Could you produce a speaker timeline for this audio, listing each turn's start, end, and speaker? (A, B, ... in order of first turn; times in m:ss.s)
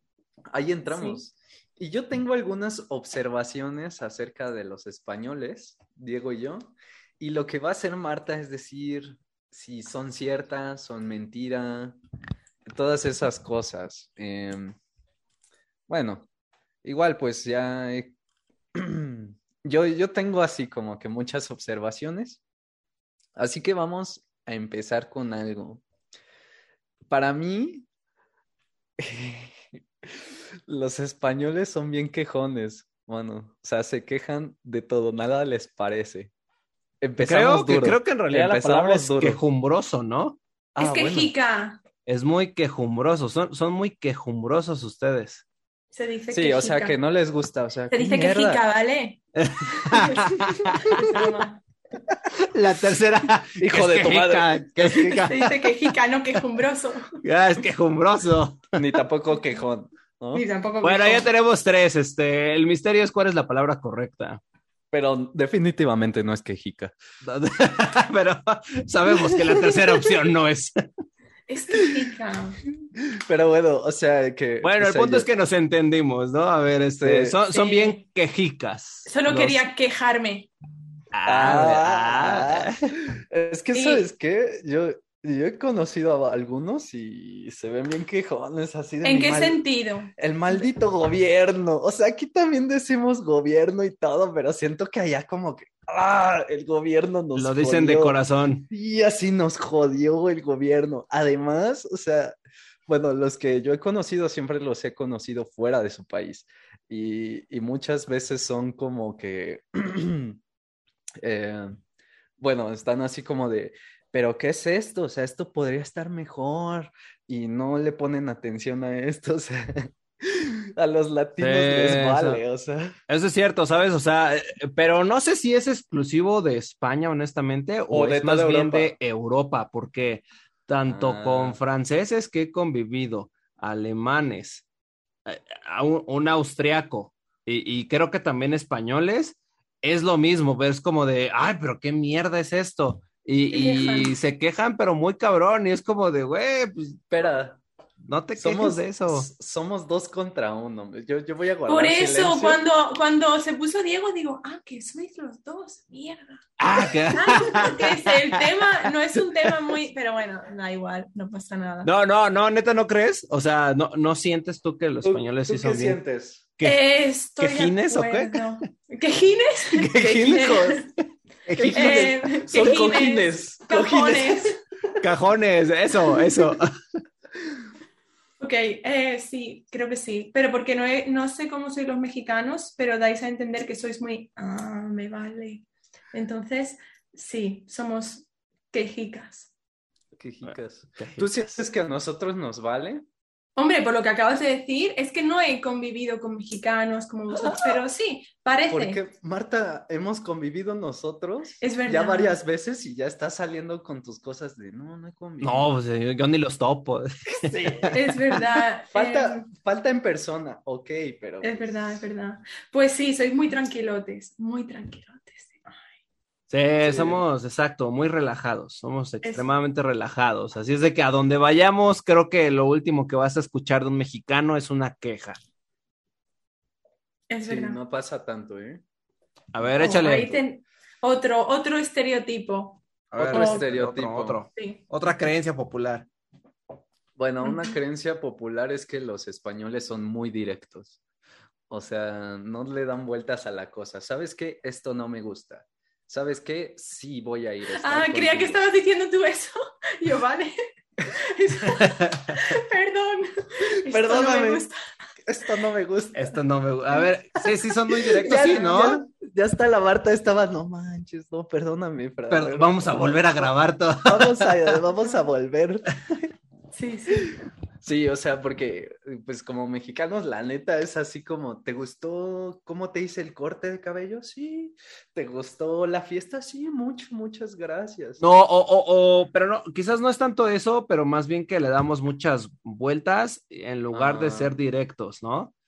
0:00.5-0:12.0 A
0:00.9-0:01.2 B
0:12.7-0:14.8 A
0:15.9-0:16.3 A
0:16.8-0:18.1 A
0:18.7-0:22.4 A
0:23.4-0:25.8 A
0:27.1-0:27.9 A
0:29.0-0:36.3 A
0:37.0-0:39.4 A
0:37.2-0:40.4 C
0:40.7-0:41.3 A
0:40.8-0:41.8 B
0:42.0-0:45.4 C
0:45.9-0:47.0 B
0:46.3-0:48.6 A
0:47.9-0:49.2 B
0:49.3-0:51.2 C
0:49.8-0:51.6 B
0:52.4-0:55.6 C
0:53.6-0:55.3 A
0:55.3-0:57.2 B
0:57.2-0:58.8 C
0:58.8-1:00.4 A
1:00.3-1:01.2 B
1:00.8-1:04.4 C
1:04.9-1:06.9 A
1:07.2-1:10.7 C
1:11.5-1:12.6 B
1:13.0-1:15.3 A
1:14.6-1:19.6 C
1:17.0-1:17.4 A
1:17.5-1:18.0 B
1:19.0-1:20.5 B
1:21.1-1:22.8 C
1:21.2-1:29.6 A
1:23.7-1:24.0 B
1:29.0-1:30.7 B
1:30.2-1:38.2 A
1:37.3-1:38.7 C
1:38.7-1:42.4 A
1:42.9-1:50.4 A
1:51.2-1:51.8 A
1:52.4-2:02.9 A
2:01.4-2:02.4 C
2:03.1-2:14.6 C
2:07.9-2:08.9 A
2:10.9-2:11.6 A
2:15.2-2:27.0 C
2:23.5-2:24.2 B
2:27.1-2:27.6 A
2:28.1-2:29.3 C
2:28.4-2:32.6 A
2:31.7-2:41.9 B
2:36.6-2:39.6 C
2:41.8-2:46.0 C
2:45.0-2:46.4 A
2:46.6-2:50.9 B
2:47.4-2:48.4 C
2:49.8-2:50.5 C
2:49.9-2:50.8 A
2:51.4-2:52.1 C
2:51.5-2:54.5 A
2:51.7-2:54.6 B
2:55.0-2:56.7 C
2:58.4-3:09.5 B
3:10.1-3:13.0 A
3:10.4-3:11.3 C
3:13.6-3:19.0 B
3:18.7-3:25.7 A
3:21.6-3:22.4 B
3:25.4-3:27.9 C
3:27.3-3:28.0 A
3:27.9-3:29.5 B
3:28.9-3:32.0 A
3:31.4-3:35.8 B
3:36.5-3:45.4 C
3:36.8-3:37.2 A
3:39.2-3:39.5 B
3:47.3-3:47.8 B
3:47.4-3:48.8 A
3:49.5-3:50.4 C
3:49.8-3:53.7 B
3:53.1-3:56.1 C
3:53.2-3:54.4 A
3:54.5-3:54.8 B
3:57.2-4:01.0 A
3:57.4-3:57.7 B
4:01.7-4:08.6 A
4:07.7-4:10.5 B
4:11.1-4:14.8 B
4:11.7-4:12.4 C
4:13.8-4:14.6 A
4:15.2-4:16.4 A
4:16.1-4:19.0 C
4:18.1-4:23.5 A
4:22.3-4:24.8 C
4:24.0-4:26.2 A
4:26.7-4:27.3 B
4:27.8-4:38.2 A
4:38.2-4:45.5 C
4:43.9-4:44.5 A